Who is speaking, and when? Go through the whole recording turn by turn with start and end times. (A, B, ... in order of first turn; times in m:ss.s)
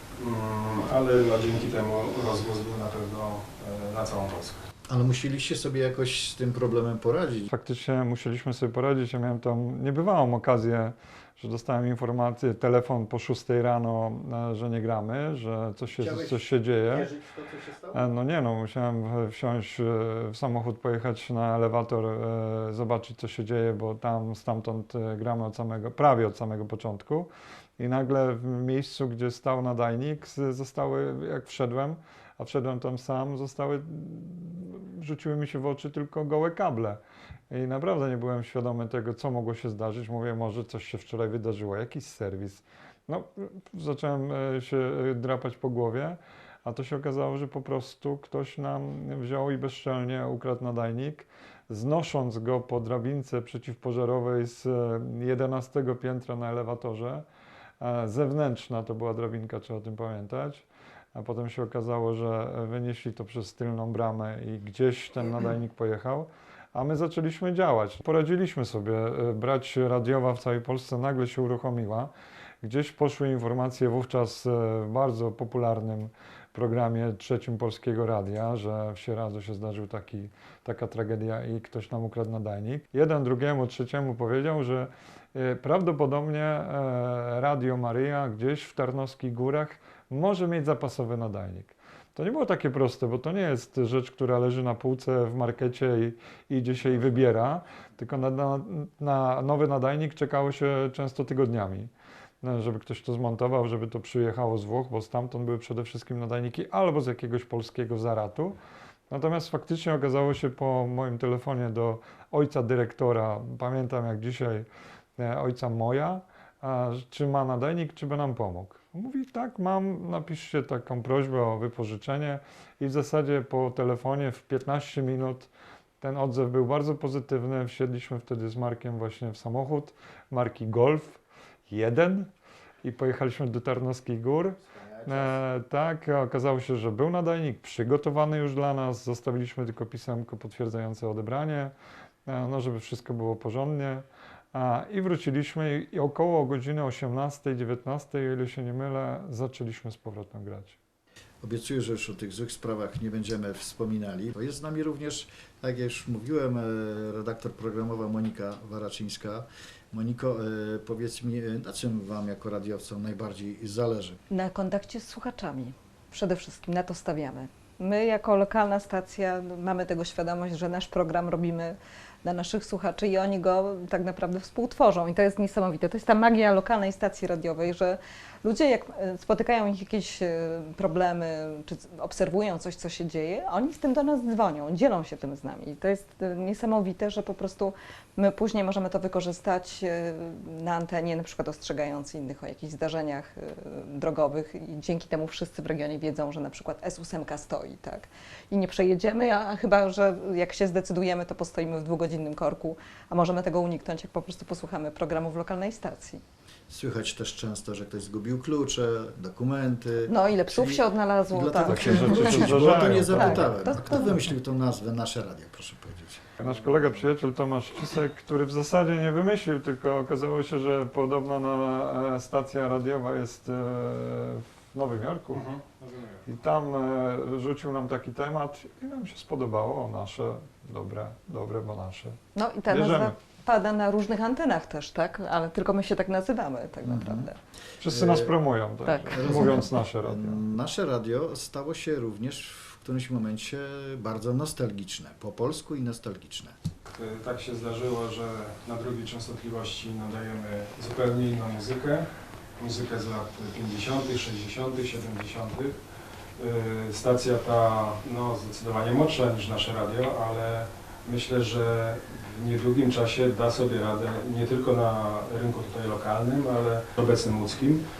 0:00.2-0:04.6 A
0:04.9-0:07.5 B
0:07.5-0:17.1 C
0:16.0-0:18.0 B
0:17.9-0:57.2 C
0:57.8-1:12.1 C
1:12.6-1:41.9 C
1:42.4-1:48.6 C
1:49.1-1:54.7 C
1:55.2-2:12.3 C
2:12.8-2:21.7 C
2:14.6-2:15.4 B
2:22.3-2:30.8 C
2:31.4-2:44.2 B
2:44.3-3:26.2 D
3:26.7-3:36.3 B
3:30.1-3:34.2 D
3:31.6-3:33.7 C
3:36.4-3:45.5 C
3:45.3-3:46.2 A
3:46.3-3:52.2 C
3:52.3-3:57.4 D
3:52.7-3:53.1 C
3:56.8-3:57.3 B
3:57.8-4:00.4 C
3:57.9-3:58.3 B
3:58.8-3:59.3 D
3:59.1-4:06.5 B
4:06.9-4:15.8 A
4:16.4-4:27.8 A